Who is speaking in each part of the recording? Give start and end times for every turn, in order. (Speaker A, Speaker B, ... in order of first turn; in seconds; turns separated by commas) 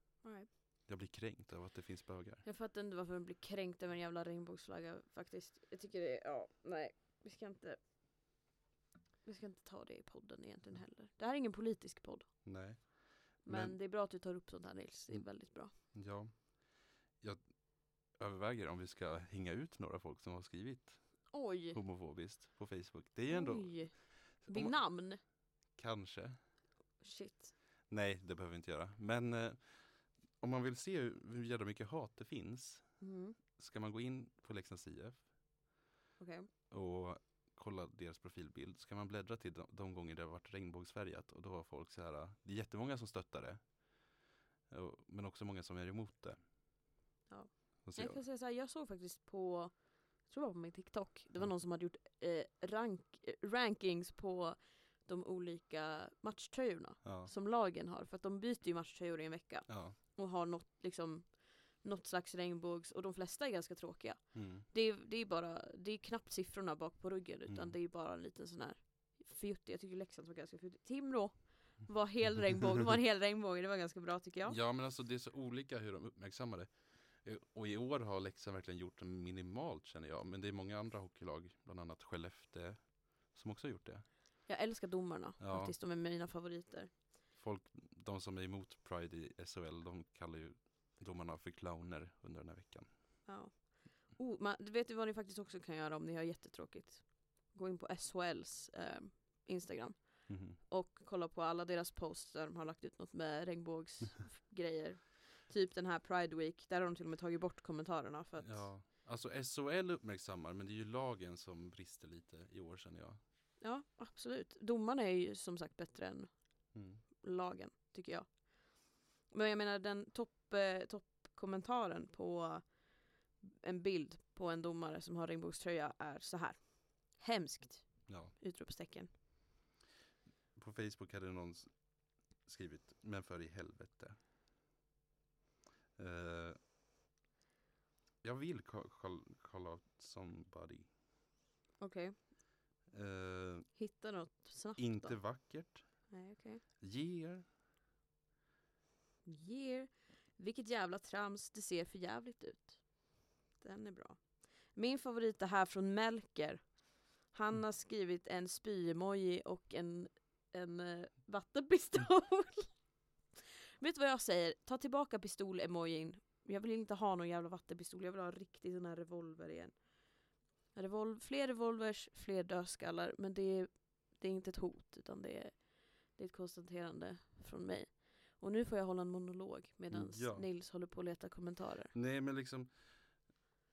Speaker A: 0.2-0.5, Speaker B: 0.9-2.4, Speaker A: 2.4-7.8, Speaker A: 9.2-12.5, Speaker B: 12.4-13.8, Speaker A: 13.4-15.7, Speaker B: 15.1-25.1, Speaker A: 21.3-21.8, Speaker A: 23.3-25.2, Speaker B: 25.7-26.4, Speaker A: 27.0-27.5, Speaker B: 27.9-32.9, Speaker A: 33.0-33.4, Speaker B: 33.5-35.5, Speaker A: 36.2-36.5, Speaker B: 36.7-43.8, Speaker B: 44.7-46.4, Speaker A: 47.3-74.6, Speaker B: 47.8-48.2, Speaker B: 57.0-57.3, Speaker B: 59.7-60.0, Speaker B: 64.3-64.7, Speaker B: 67.5-67.7, Speaker B: 74.5-84.0, Speaker A: 84.5-86.9, Speaker B: 85.4-85.7, Speaker B: 87.3-92.9, Speaker A: 93.2-108.7, Speaker B: 100.3-100.6, Speaker B: 108.4-113.2, Speaker A: 113.6-116.3, Speaker B: 116.7-117.0, Speaker A: 117.0-122.7, Speaker A: 123.4-129.1, Speaker B: 128.1-128.3, Speaker B: 130.5-134.2, Speaker B: 136.0-136.6, Speaker B: 138.2-140.9, Speaker A: 141.8-142.1, Speaker B: 142.9-143.7, Speaker A: 143.7-145.5, Speaker B: 144.8-145.9, Speaker A: 146.1-146.6, Speaker B: 146.8-147.4, Speaker A: 149.2-152.8, Speaker A: 153.6-162.8, Speaker A: 163.3-169.8, Speaker A: 170.7-181.9, Speaker B: 179.9-180.5, Speaker B: 181.9-183.0